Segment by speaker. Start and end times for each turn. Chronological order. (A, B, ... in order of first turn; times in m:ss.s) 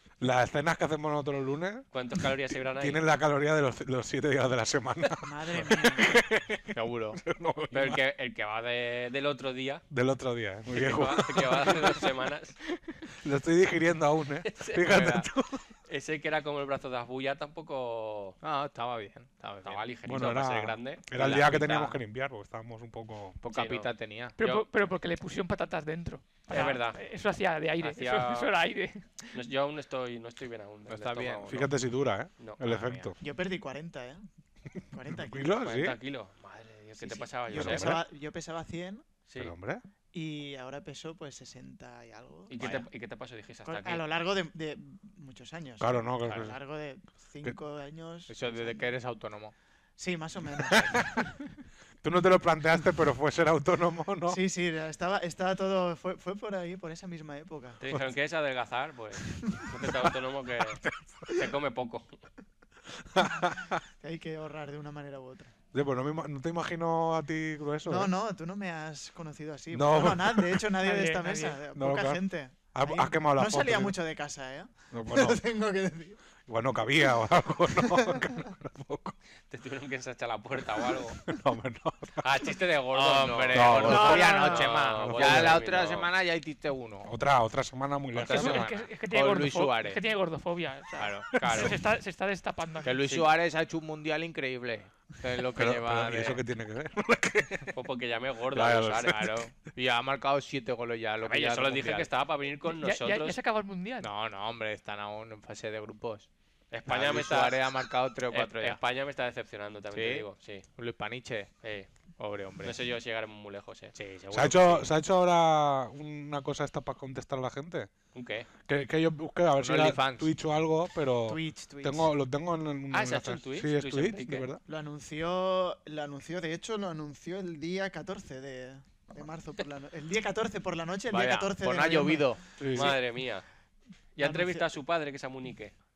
0:00.2-0:01.9 A
0:01.9-0:03.0 B
0:02.6-0:08.0 A
0:05.2-0:06.1 C
0:06.7-0:07.2 D
0:07.7-0:09.8 B
0:09.9-0:12.0 A
0:10.7-0:12.6 B
0:13.2-0:15.6 A
0:14.4-0:15.1 B
0:14.9-0:15.3 D
0:15.9-0:18.4 B
0:18.4-0:19.8 D
0:19.6-0:21.0 B
0:20.1-0:23.4 A
0:21.2-0:22.0 D
0:23.4-0:24.4 D
0:23.5-0:24.7 B
0:24.4-0:29.4 E
0:26.5-0:27.0 B
0:27.8-0:28.5 B
0:29.3-0:31.7 B
0:30.9-0:31.7 D
0:31.5-0:33.2 A
0:32.6-0:33.1 D
0:33.2-0:34.2 C
0:34.9-0:35.6 C
0:35.1-0:36.0 A
0:35.6-0:38.0 B
0:37.0-0:39.1 C
0:37.5-0:38.0 A
0:39.3-0:39.5 B
0:39.4-0:39.8 A
0:40.1-0:42.9 C
0:42.5-0:44.0 B
0:43.7-0:48.9 C
0:45.8-0:46.6 A
0:48.3-0:49.6 D
0:50.0-0:51.1 C
0:52.0-0:54.4 A
0:54.3-0:57.8 C
0:57.8-1:02.1 B
1:00.8-1:01.3 A
1:03.1-1:03.8 A
1:04.0-1:05.5 C
1:05.7-1:08.1 A
1:07.8-1:16.2 C
1:09.7-1:10.7 A
1:10.8-1:11.6 E
1:11.7-1:14.0 A
1:14.9-1:15.4 A
1:16.5-1:19.2 A
1:17.8-1:18.2 C
1:19.5-1:21.2 B
1:21.2-1:22.5 A
1:22.2-1:26.1 B
1:22.9-1:27.1 D
1:23.5-1:24.2 A
1:23.9-1:24.7 E
1:25.0-1:25.6 A
1:27.0-1:28.7 A
1:28.2-1:30.0 D
1:28.3-1:33.0 E
1:31.0-1:31.3 D
1:31.3-1:31.7 A
1:31.4-1:31.8 B
1:32.8-1:36.4 D
1:35.6-1:37.7 A
1:37.7-1:39.3 B
1:38.5-1:39.4 A
1:39.1-1:42.1 D
1:41.2-1:43.4 B
1:42.7-1:44.1 E
1:44.0-1:46.3 D
1:46.7-1:47.6 B
1:46.9-1:48.8 D
1:48.3-1:50.6 B
1:49.9-1:51.5 D
1:51.6-1:51.9 B
1:52.2-1:52.8 D
1:52.6-1:54.0 B
1:54.0-1:54.9 D
1:54.3-1:57.9 A
1:58.1-1:58.5 B
1:58.7-2:04.6 A
1:59.6-2:00.3 D
2:01.3-2:02.1 C
2:02.9-2:04.5 B
2:04.7-2:12.9 C
2:11.1-2:12.4 D
2:12.6-2:13.0 A
2:12.7-2:13.4 B
2:14.2-2:15.7 B
2:14.2-2:14.7 C